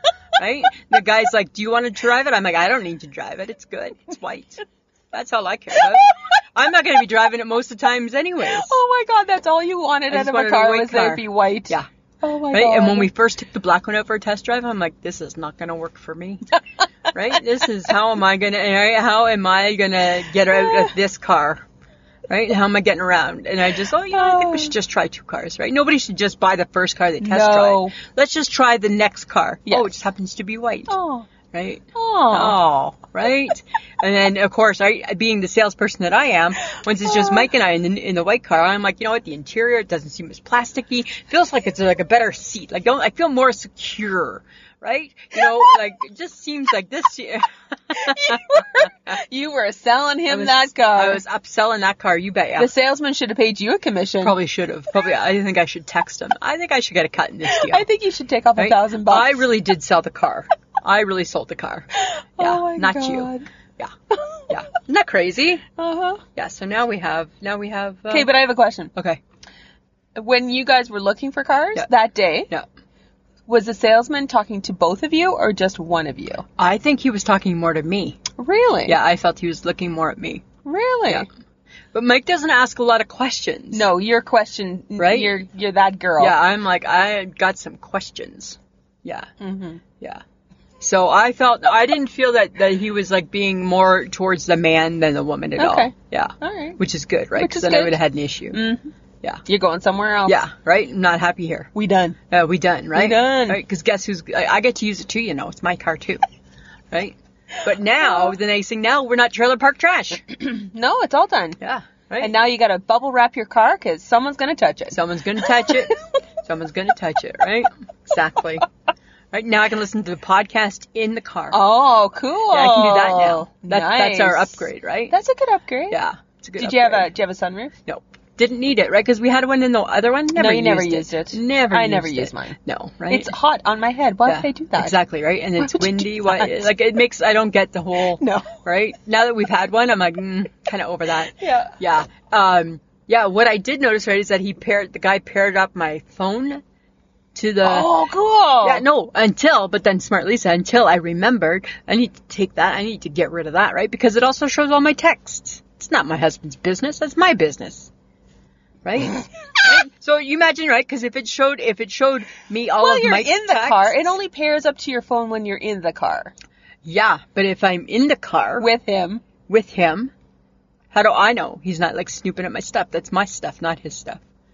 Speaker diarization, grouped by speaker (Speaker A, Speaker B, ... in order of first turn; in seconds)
Speaker A: 0.4-8.8, 10.1-11.9, 12.5-16.6, 17.1-21.6, 22.3-30.9, 31.5-48.6, 50.3-52.7, 54.2-57.9, 58.6-61.9, 62.4-63.9, 64.5-65.7, 66.3-68.3, 76.6-78.2, 78.9-80.4, 81.9-83.9, 85.0-85.3, 86.2-89.3, 90.8-98.6, 100.3-101.7, 102.3-106.2, 106.9-110.3, 111.6-112.3, 114.9-118.7, 119.3-121.6, 122.5-125.1, 125.9-127.1, 127.9-133.3, 134.3-146.6, 147.3-147.9, 148.6-157.9, 158.8-164.1, 166.8-168.7, 169.5-170.1, 170.9-174.2
Speaker B: 8.5-13.1, 20.6-20.9, 24.1-24.7, 27.2-27.9, 29.7-30.0, 30.9-31.3, 31.9-32.6, 37.1-37.5, 48.0-51.2, 52.6-54.3, 57.5-59.4, 62.0-63.5, 64.1-64.5, 65.8-66.2, 68.1-68.9, 70.2-72.5, 73.5-76.5, 78.4-79.0, 80.7-81.3, 83.7-86.3, 89.4-89.8, 95.6-96.8, 97.4-98.0, 98.5-98.9, 99.5-100.4, 101.8-102.2, 102.9-103.6, 110.3-111.6, 112.2-115.0, 121.5-126.0, 126.6-127.7, 130.3-132.6, 133.1-135.0, 135.6-136.7, 138.2-138.6, 141.4-141.8, 147.6-148.8, 162.8-166.3, 168.6-169.2